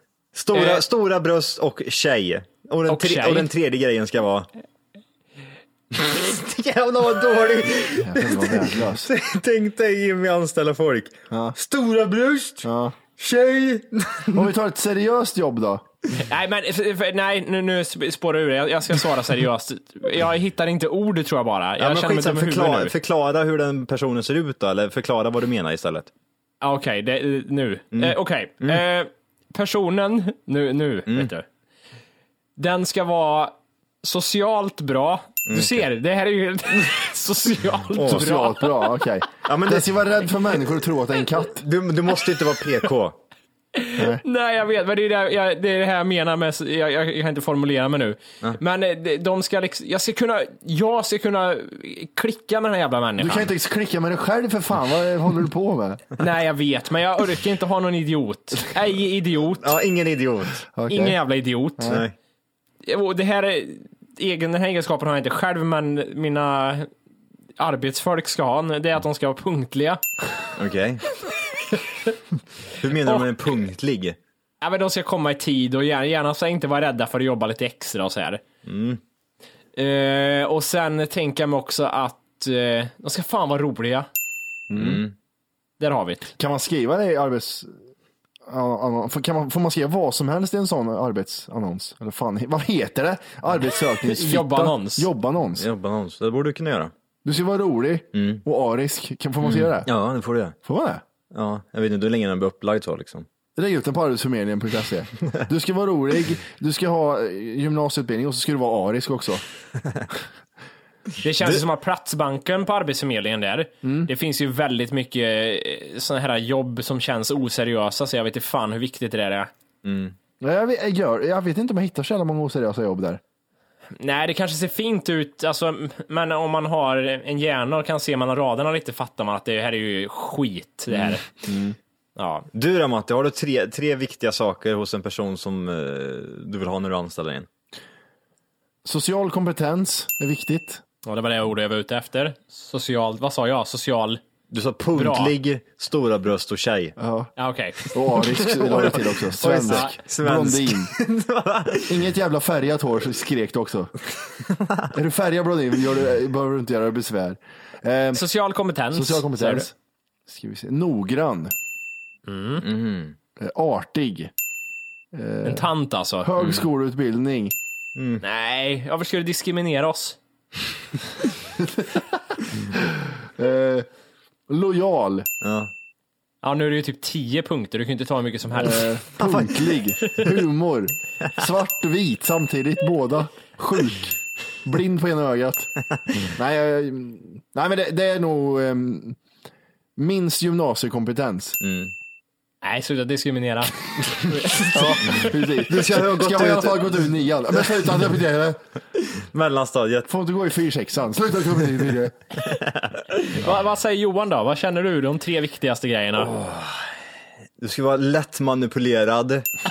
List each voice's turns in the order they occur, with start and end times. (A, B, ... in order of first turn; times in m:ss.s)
0:00.3-0:04.5 A
0:00.5-0:00.8 B
0:02.9-0:03.5 B
0:05.9-0:14.5 A
0:08.0-0:09.1 C
0:11.3-0:11.6 C
0:12.6-0:13.0 C
0:14.3-0:15.9 C
0:16.1-0:22.9 B
0:21.8-0:26.1 A
0:26.6-0:31.5 B
0:27.9-0:28.8 A
0:32.6-0:39.0 B
0:35.5-0:35.8 A
0:38.0-0:38.3 A
0:38.0-0:41.6 C
0:39.4-0:40.0 A
0:41.6-0:43.2 A
0:43.8-0:53.5 B
0:44.0-0:44.2 C
0:53.2-0:56.0 C
0:56.2-0:59.7 B
0:59.6-1:00.7 A
1:00.7-1:01.2 C
1:00.9-1:02.0 B
1:01.8-1:02.0 C
1:01.9-1:02.1 A
1:02.8-1:06.9 B
1:07.6-1:10.0 B
1:10.6-1:11.0 A
1:12.7-1:14.2 A
1:14.6-1:18.4 B
1:18.6-1:19.0 A
1:19.8-1:24.1 B
1:24.7-1:25.0 C
1:24.7-1:25.1 A
1:25.8-1:26.3 B
1:26.4-1:27.8 C
1:28.5-1:35.7 C
1:34.0-1:35.1 B
1:35.6-1:36.9 A
1:37.2-1:39.9 C
1:38.1-1:38.4 A
1:39.4-1:40.6 A
1:40.6-1:41.0 C
1:41.3-1:43.3 A
1:43.6-1:49.4 C
1:51.2-1:59.5 B
1:53.8-1:54.1 C
1:59.8-2:00.2 A
2:00.4-2:03.2 C
2:04.0-2:11.2 B
2:11.5-2:11.8 C
2:12.2-2:12.5 B
2:12.5-2:17.5 A
2:18.8-2:20.8 C
2:21.1-2:24.2 B
2:24.5-2:27.0 A
2:24.9-2:25.3 B
2:27.0-2:27.3 C
2:27.4-2:27.9 B
2:27.9-2:30.9 C
2:28.4-2:32.0 A
2:29.7-2:30.0 B
2:31.9-2:33.9 C
2:34.9-2:38.2 C
2:38.2-2:39.7 B
2:38.9-2:39.7 C
2:40.3-2:41.5 C
2:42.3-2:42.6 B
2:42.6-2:43.2 A
2:43.4-2:44.3 C
2:45.1-2:45.7 C
2:45.4-2:46.3 B
2:46.2-2:47.6 C
2:48.0-2:48.2 A
2:48.2-2:50.2 B
2:51.6-2:52.0 C
2:52.7-2:53.9 C
2:54.5-2:55.3 C
2:55.4-2:55.7 A
2:56.4-2:58.9 B
2:58.6-3:05.7 C
2:59.2-2:59.7 A
3:06.2-3:09.2 C
3:10.0-3:11.6 C
3:11.6-3:11.9 A
3:12.6-3:15.2 B
3:14.5-3:17.1 A
3:14.7-3:18.6 C
3:19.0-3:20.1 A
3:20.1-3:22.2 C
3:22.5-3:22.9 A
3:23.2-3:26.3 B
3:26.2-3:26.9 A
3:27.6-3:29.5 A